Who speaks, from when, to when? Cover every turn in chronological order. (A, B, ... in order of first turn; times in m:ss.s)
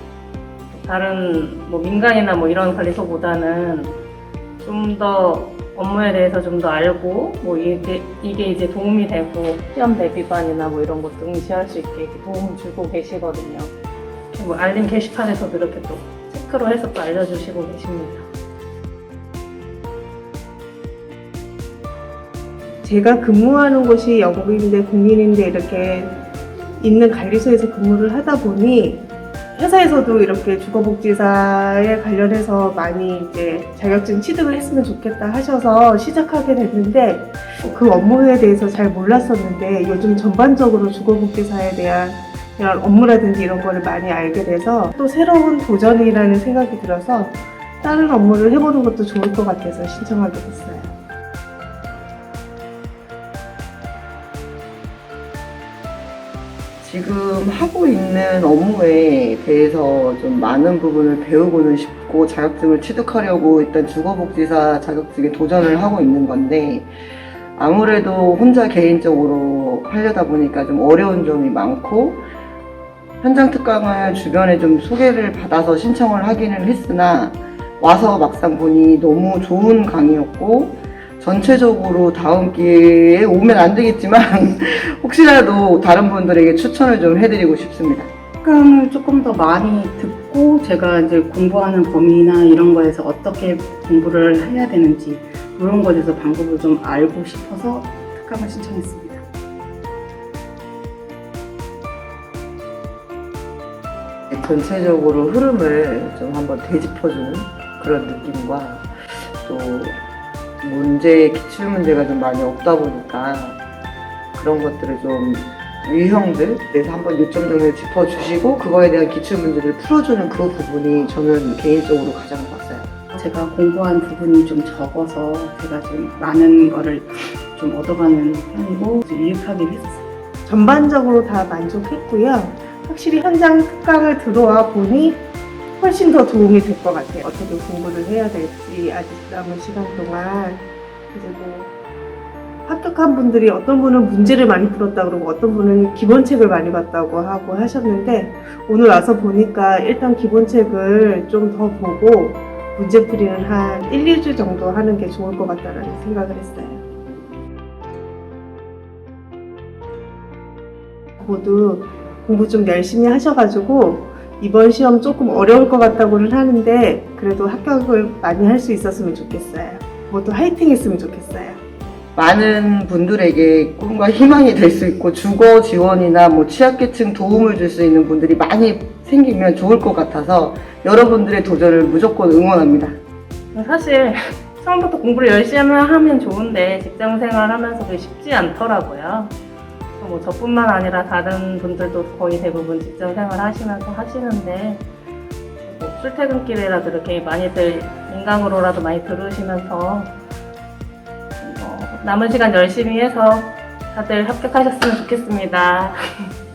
0:00.7-0:04.0 A
0:04.6-0:13.7 A
0:14.3-0:18.3 A
0:22.8-0:26.2 B
0:26.8-0:50.9 B
0:56.8-1:06.9 C
1:07.6-1:12.2 C
1:13.2-1:28.1 C
1:28.4-1:39.2 D
1:44.3-1:50.0 C
1:50.6-1:53.6 C
1:54.3-2:02.9 C
2:03.1-2:10.0 D
2:10.4-2:15.2 B
2:15.8-2:21.7 B
2:22.6-2:36.8 B
2:41.2-2:51.6 B
2:52.1-3:03.0 C
3:03.5-3:09.3 A
3:10.0-3:14.8 A
3:15.6-3:20.1 A
3:21.4-3:26.0 A